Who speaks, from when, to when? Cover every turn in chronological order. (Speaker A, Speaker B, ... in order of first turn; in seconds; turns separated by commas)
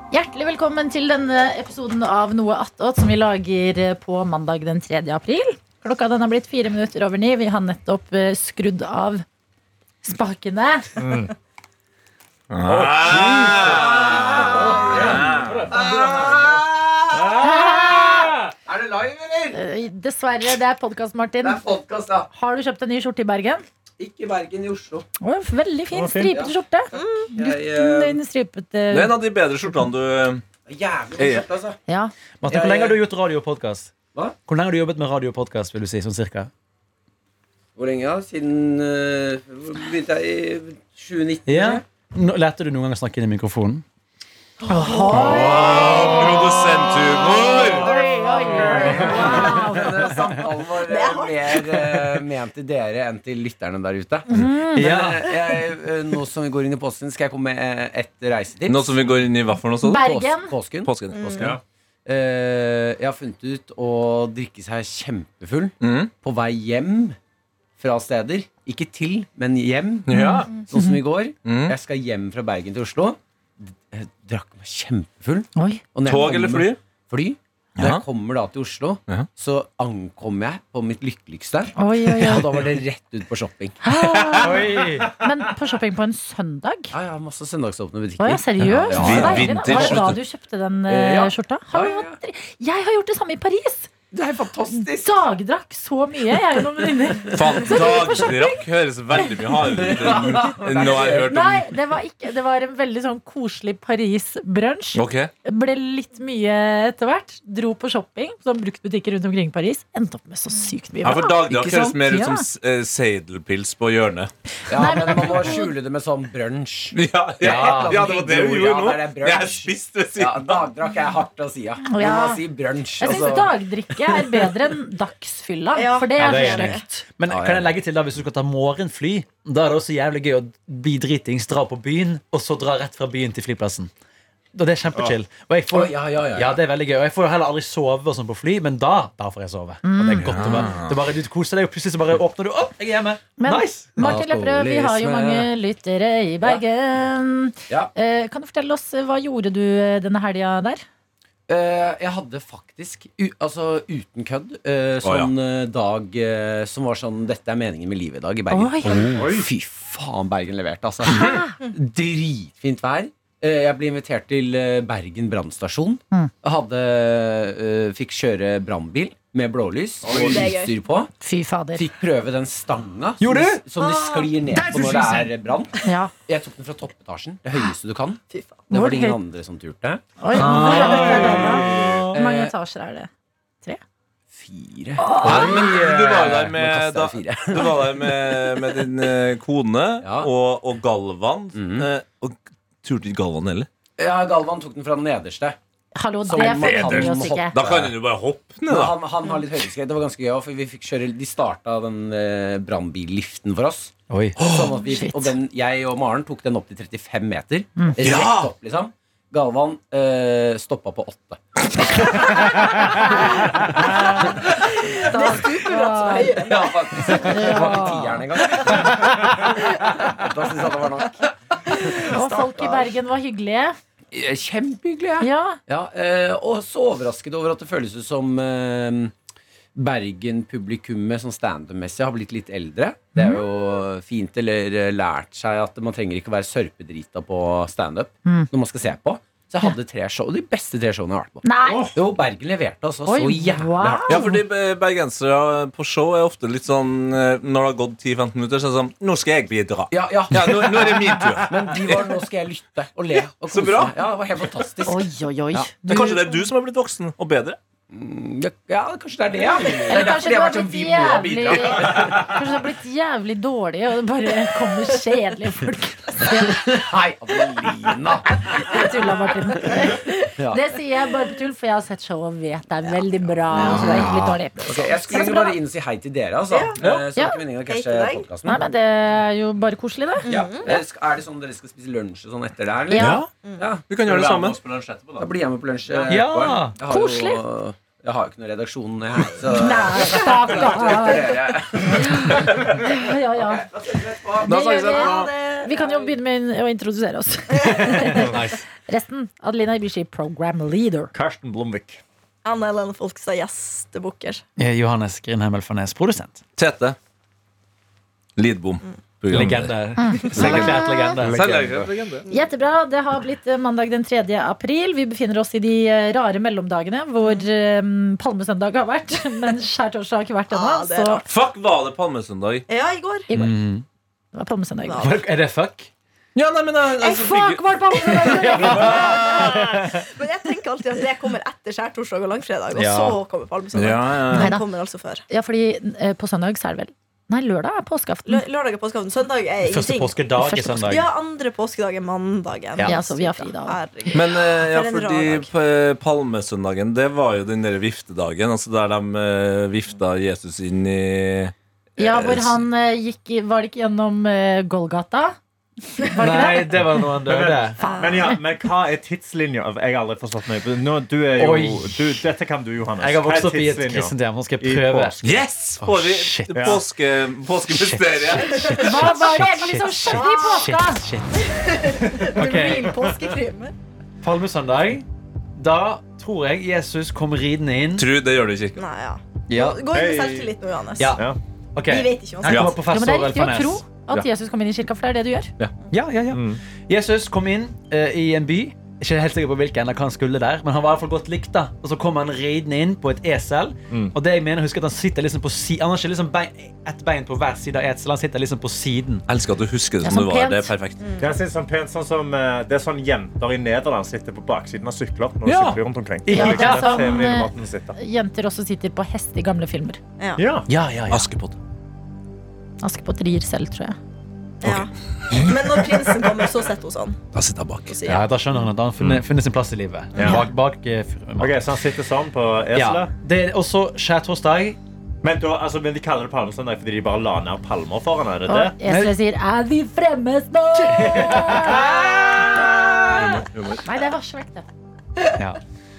Speaker A: 0.1-9.2, Speaker A: 10.0-11.0, Speaker B: 11.0-11.3, Speaker C: 12.5-15.7, Speaker B: 12.6-16.4, Speaker D: 13.5-19.6, Speaker E: 15.1-15.7, Speaker B: 17.1-17.8, Speaker A: 17.4-18.4, Speaker A: 19.5-21.7, Speaker D: 21.4-22.3, Speaker A: 22.3-23.6, Speaker D: 24.0-25.1, Speaker A: 25.2-29.2, Speaker B: 25.9-26.3, Speaker F: 27.0-27.3, Speaker D: 27.3-28.2, Speaker C: 28.9-30.4, Speaker D: 30.6-31.8, Speaker C: 31.2-31.4, Speaker A: 31.9-32.1, Speaker E: 32.4-33.9, Speaker D: 32.4-33.0, Speaker E: 34.5-36.5, Speaker D: 37.8-41.8, Speaker E: 41.5-43.8, Speaker E: 44.6-45.8, Speaker A: 44.7-46.5, Speaker C: 45.1-47.9, Speaker D: 45.2-46.2, Speaker D: 47.6-59.1, Speaker A: 47.8-50.3, Speaker F: 50.8-51.5, Speaker A: 54.3-55.0, Speaker E: 54.7-55.3, Speaker C: 58.7-60.1, Speaker A: 59.8-60.5, Speaker D: 59.9-67.2, Speaker C: 60.8-61.5, Speaker F: 61.1-61.6, Speaker C: 65.8-66.1, Speaker D: 67.8-83.8, Speaker C: 70.1-70.6, Speaker A: 70.1-71.0, Speaker C: 71.4-71.8, Speaker A: 75.5-75.8, Speaker C: 76.0-76.8, Speaker A: 81.8-82.6, Speaker A: 83.8-86.9, Speaker E: 84.4-85.1, Speaker B: 84.9-85.4, Speaker D: 86.9-90.1, Speaker A: 88.2-93.9, Speaker C: 88.6-90.2, Speaker D: 90.9-92.2, Speaker D: 94.1-95.2, Speaker A: 94.7-98.5, Speaker C: 97.3-101.8, Speaker D: 97.5-98.2, Speaker D: 99.6-101.3, Speaker A: 101.1-112.4, Speaker C: 104.9-105.3, Speaker C: 111.0-114.3, Speaker D: 111.5-112.0, Speaker D: 114.7-124.5, Speaker A: 114.7-115.7, Speaker C: 116.9-120.7, Speaker E: 117.4-118.0, Speaker A: 121.8-122.4, Speaker A: 123.0-127.0, Speaker F: 125.7-126.8, Speaker E: 126.2-133.9, Speaker D: 127.2-127.7, Speaker E: 134.5-144.0, Speaker D: 135.7-136.6, Speaker A: 139.8-140.8, Speaker C: 140.1-141.0, Speaker A: 143.4-150.8, Speaker D: 144.0-145.5, Speaker D: 151.5-171.1, Speaker C: 155.0-155.3, Speaker A: 158.5-159.1, Speaker B: 159.1-159.5, Speaker A: 161.0-161.6, Speaker C: 161.1-161.4, Speaker B: 170.1-170.4, Speaker F: 170.2-170.7, Speaker A: 171.2-171.9, Speaker D: 171.7-182.5, Speaker E: 173.2-173.6, Speaker F: 173.8-174.5, Speaker A: 174.5-175.3, Speaker A: 175.8-176.1, Speaker F: 178.3-178.7, Speaker A: 178.7-179.2, Speaker A: 180.2-183.1, Speaker E: 180.3-181.4, Speaker B: 180.6-182.1, Speaker D: 184.3-188.8, Speaker A: 185.0-185.5, Speaker C: 185.2-193.7, Speaker E: 185.2-185.8, Speaker D: 190.0-190.3, Speaker D: 191.5-191.9, Speaker D: 194.0-195.6, Speaker A: 195.9-197.6, Speaker D: 196.3-197.9, Speaker C: 196.3-199.0, Speaker D: 198.7-214.3, Speaker E: 204.1-204.4, Speaker C: 204.4-204.8, Speaker A: 204.8-205.3, Speaker C: 208.0-208.5, Speaker A: 212.9-213.2, Speaker F: 214.5-217.2, Speaker A: 215.0-219.1, Speaker D: 216.4-222.9, Speaker A: 221.9-223.8, Speaker D: 224.1-229.1, Speaker A: 225.2-225.6, Speaker D: 229.7-244.2, Speaker A: 233.1-233.4, Speaker A: 238.2-238.5, Speaker A: 241.4-241.9, Speaker B: 241.7-241.9, Speaker A: 243.1-244.3, Speaker C: 244.1-252.1, Speaker D: 249.9-255.7, Speaker C: 253.5-253.9, Speaker A: 254.8-256.5, Speaker C: 255.8-257.6, Speaker D: 257.9-262.4, Speaker A: 259.8-266.9, Speaker C: 261.7-262.2, Speaker D: 266.3-268.8, Speaker A: 268.5-275.6, Speaker D: 273.5-278.6, Speaker C: 273.6-274.4, Speaker F: 276.5-276.8, Speaker A: 277.1-277.5, Speaker F: 277.6-278.3, Speaker A: 278.4-280.7, Speaker F: 280.2-280.8, Speaker D: 280.2-284.6, Speaker A: 282.9-283.3, Speaker C: 282.9-283.3, Speaker F: 283.3-283.7, Speaker C: 283.9-285.3, Speaker D: 285.2-295.0, Speaker C: 285.9-286.1, Speaker E: 286.1-286.8, Speaker A: 286.8-287.4, Speaker A: 289.5-293.7, Speaker F: 290.0-290.3, Speaker A: 294.4-301.1, Speaker C: 294.4-295.3, Speaker F: 294.8-296.1, Speaker F: 297.5-298.4, Speaker E: 298.2-298.6, Speaker B: 301.1-302.0, Speaker F: 302.4-304.4, Speaker E: 304.6-306.4, Speaker C: 306.6-307.0, Speaker C: 308.4-312.2, Speaker E: 309.3-311.4, Speaker A: 310.0-311.2, Speaker F: 310.2-310.9, Speaker B: 311.2-311.9, Speaker A: 312.3-321.3, Speaker F: 320.5-321.2, Speaker C: 321.2-322.6, Speaker F: 322.7-323.3, Speaker A: 323.3-323.6, Speaker E: 323.3-323.8, Speaker A: 324.3-325.1, Speaker F: 324.8-325.2, Speaker E: 325.0-325.9, Speaker C: 326.3-329.6, Speaker F: 327.0-335.2, Speaker A: 327.9-329.4, Speaker E: 328.6-329.0, Speaker E: 332.7-333.2, Speaker C: 333.7-334.6, Speaker A: 334.3-334.6, Speaker A: 335.3-338.4, Speaker F: 338.3-340.2, Speaker E: 339.6-341.1, Speaker A: 340.4-340.8, Speaker F: 340.8-345.5, Speaker A: 342.8-343.8, Speaker C: 344.1-352.6, Speaker A: 352.0-355.4, Speaker A: 356.0-357.1, Speaker E: 356.2-357.8, Speaker B: 357.2-365.4, Speaker A: 357.8-358.4, Speaker F: 357.8-358.3, Speaker E: 361.4-362.2, Speaker E: 363.0-365.1, Speaker C: 365.2-369.1, Speaker E: 365.8-366.5, Speaker B: 366.5-366.8, Speaker E: 367.7-373.0, Speaker F: 368.4-368.9, Speaker A: 368.7-371.1, Speaker F: 369.8-370.6, Speaker F: 371.4-373.7, Speaker B: 372.3-373.2, Speaker E: 374.2-378.1, Speaker C: 378.0-378.8, Speaker F: 378.8-381.2, Speaker E: 379.5-379.8, Speaker B: 379.9-380.5, Speaker E: 381.0-383.8, Speaker F: 381.8-382.8, Speaker C: 382.4-382.7, Speaker A: 382.8-385.5, Speaker E: 385.9-399.2, Speaker B: 386.3-386.6, Speaker B: 393.9-394.1, Speaker C: 399.3-401.0, Speaker A: 400.0-400.7, Speaker F: 401.0-401.4, Speaker B: 401.2-407.9, Speaker E: 405.5-407.2, Speaker A: 406.3-410.0, Speaker F: 410.2-410.4, Speaker B: 410.4-410.7, Speaker E: 410.7-411.3, Speaker C: 411.1-411.6, Speaker A: 412.8-414.0, Speaker F: 414.6-417.2, Speaker C: 414.6-415.6, Speaker C: 417.3-417.9, Speaker F: 417.9-418.3, Speaker E: 418.0-421.6, Speaker B: 420.1-420.4, Speaker F: 420.1-420.4, Speaker B: 421.4-423.1, Speaker E: 422.7-424.8, Speaker B: 425.2-428.7, Speaker A: 428.5-434.7, Speaker E: 428.8-429.1, Speaker E: 430.9-432.9, Speaker C: 433.0-433.8